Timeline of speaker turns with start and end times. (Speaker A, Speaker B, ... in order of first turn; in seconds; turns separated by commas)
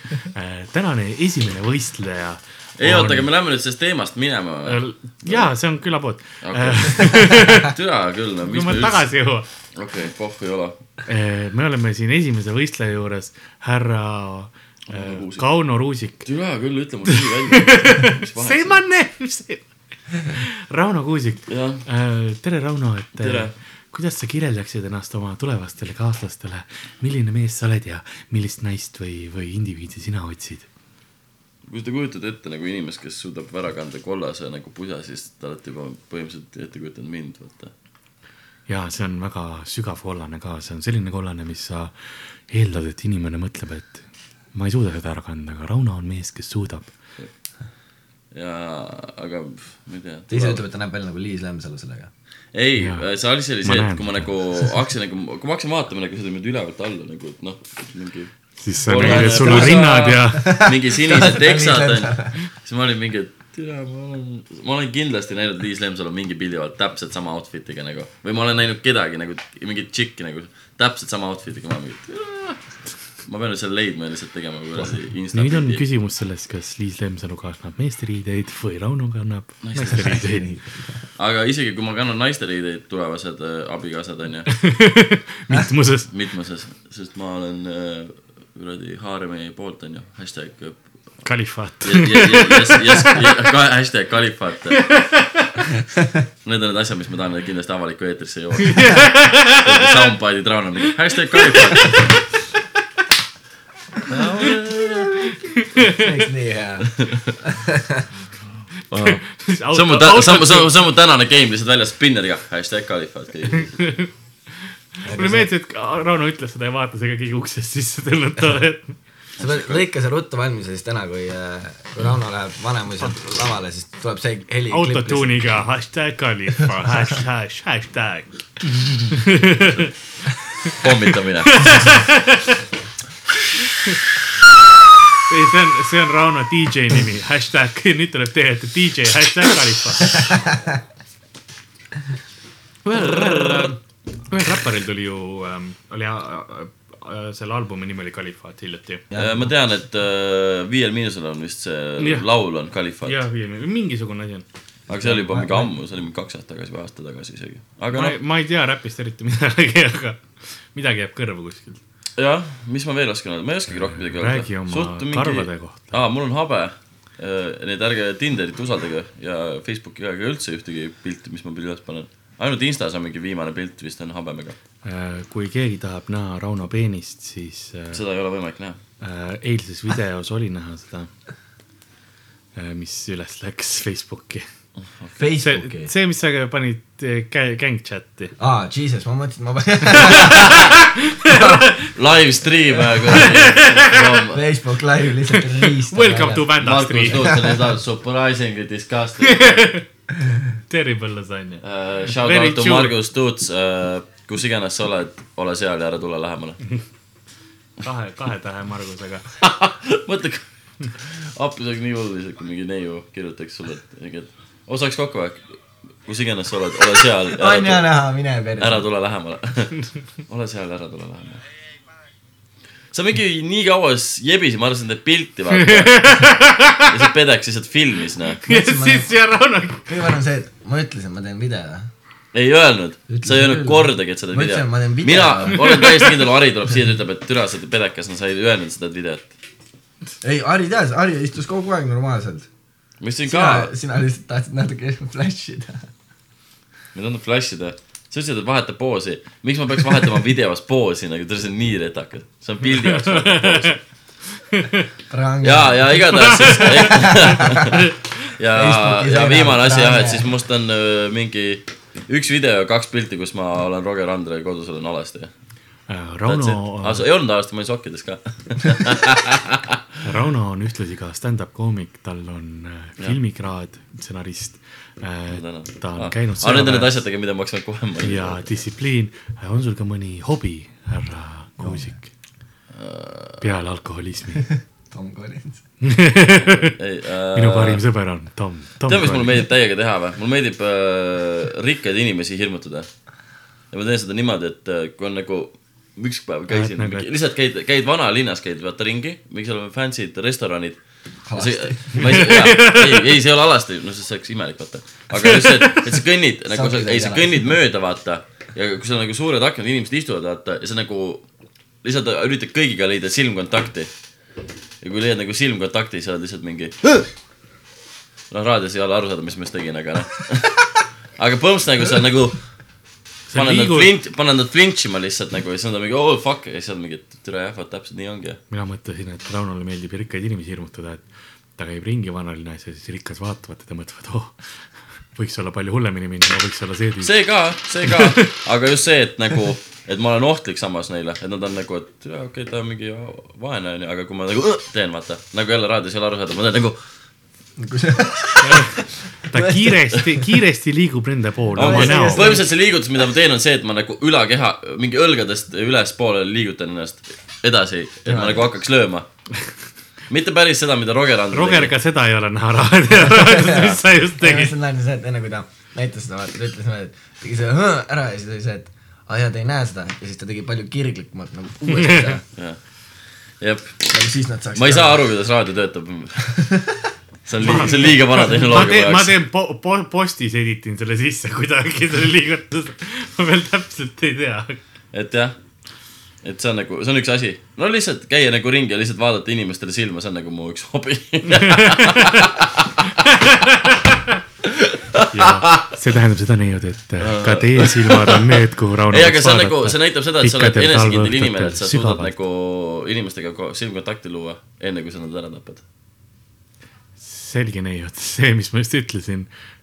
Speaker A: 0.3-3.3, Speaker B: 2.8-5.5, Speaker A: 4.7-7.7, Speaker B: 6.4-10.8, Speaker A: 8.4-9.5, Speaker A: 11.1-16.3, Speaker B: 14.9-15.5, Speaker B: 16.2-18.8, Speaker A: 17.1-30.7, Speaker B: 21.5-21.8, Speaker B: 23.2-23.5, Speaker B: 31.6-37.7, Speaker A: 38.7-47.0, Speaker B: 48.3-50.6, Speaker C: 50.3-52.1, Speaker B: 52.5-75.8, Speaker A: 52.8-53.0, Speaker A: 53.6-54.3, Speaker A: 58.6-60.6, Speaker C: 58.9-62.4, Speaker A: 74.8-80.5, Speaker B: 79.6-80.2, Speaker C: 79.9-81.0, Speaker B: 81.2-84.6, Speaker A: 84.5-86.1, Speaker B: 86.1-91.3, Speaker A: 91.2-93.3, Speaker B: 91.8-95.0, Speaker A: 94.7-95.5, Speaker B: 96.4-102.2, Speaker A: 98.7-99.9, Speaker A: 101.3-102.2, Speaker B: 104.1-105.4, Speaker A: 104.2-104.6, Speaker C: 105.1-108.1, Speaker A: 105.6-106.0, Speaker B: 106.8-107.4, Speaker A: 108.9-110.7, Speaker B: 108.9-114.0, Speaker A: 113.8-114.1, Speaker A: 114.6-119.0, Speaker C: 115.0-115.5, Speaker C: 119.4-125.4, Speaker A: 124.7-129.9, Speaker B: 130.7-131.8, Speaker A: 131.5-132.6, Speaker A: 135.3-140.3, Speaker C: 140.3-140.8, Speaker A: 142.8-149.1, Speaker C: 149.1-149.5, Speaker B: 149.1-153.2, Speaker A: 152.0-152.2, Speaker A: 153.0-154.4, Speaker C: 154.9-155.7, Speaker B: 154.9-158.2, Speaker A: 157.9-161.8, Speaker B: 162.2-174.6, Speaker A: 164.1-165.9, Speaker A: 174.8-178.0, Speaker B: 177.9-178.8, Speaker A: 179.0-181.1, Speaker A: 182.6-184.5, Speaker C: 185.2-185.9, Speaker A: 185.4-188.3, Speaker C: 188.4-190.6, Speaker B: 190.1-190.8, Speaker A: 190.1-191.9, Speaker C: 191.3-191.6, Speaker B: 191.8-194.4, Speaker C: 192.8-193.5, Speaker A: 193.1-194.1, Speaker C: 194.3-196.6, Speaker A: 195.3-197.3, Speaker B: 196.6-199.7, Speaker C: 197.1-197.6, Speaker A: 199.2-199.9, Speaker A: 200.7-202.9, Speaker B: 201.6-206.7, Speaker A: 207.8-209.3, Speaker B: 209.4-217.9, Speaker C: 217.3-218.9, Speaker B: 218.6-221.4, Speaker B: 222.9-228.4, Speaker A: 225.6-227.1, Speaker A: 228.4-229.9, Speaker C: 228.5-229.1, Speaker C: 229.9-231.9, Speaker B: 232.3-239.3, Speaker C: 233.1-235.7, Speaker A: 235.6-235.8, Speaker C: 240.2-242.5, Speaker B: 243.0-243.7, Speaker C: 243.3-245.9, Speaker B: 246.9-253.8, Speaker A: 252.7-253.8, Speaker A: 254.5-254.8, Speaker C: 255.1-257.6, Speaker B: 255.4-265.3, Speaker A: 256.5-257.1, Speaker C: 258.5-260.3, Speaker A: 265.9-267.0, Speaker B: 266.3-269.8, Speaker A: 270.0-277.0, Speaker B: 275.3-278.6, Speaker A: 278.0-282.1, Speaker C: 281.6-281.9, Speaker B: 282.7-283.5, Speaker A: 283.4-284.5, Speaker C: 284.9-285.6, Speaker A: 285.8-286.8, Speaker B: 286.3-287.8, Speaker A: 287.3-289.3, Speaker B: 288.9-292.9, Speaker B: 293.7-311.3, Speaker A: 296.5-297.1, Speaker C: 301.3-302.1, Speaker A: 302.0-303.0, Speaker A: 305.1-305.9, Speaker C: 306.5-307.5, Speaker B: 311.8-313.9, Speaker B: 314.8-317.0, Speaker B: 318.3-322.7, Speaker A: 323.3-323.9, Speaker B: 323.3-328.4, Speaker A: 328.5-337.2, Speaker B: 337.0-346.8, Speaker A: 337.8-338.3, Speaker C: 347.6-350.2, Speaker A: 348.4-352.4, Speaker C: 351.6-352.5, Speaker B: 351.6-359.1, Speaker C: 358.1-358.5, Speaker B: 360.1-361.7, Speaker A: 361.3-364.5, Speaker C: 362.9-372.2, Speaker A: 371.7-372.1, Speaker B: 372.3-373.9, Speaker C: 373.9-375.0, Speaker B: 374.6-376.6, Speaker C: 376.3-376.9, Speaker B: 377.3-379.1, Speaker A: 377.4-384.6, Speaker B: 384.9-385.4, Speaker B: 386.2-393.9, Speaker A: 391.3-392.3, Speaker A: 393.0-394.1, Speaker B: 394.5-395.7, Speaker A: 395.1-402.1, Speaker B: 397.0-405.6, Speaker A: 407.0-409.3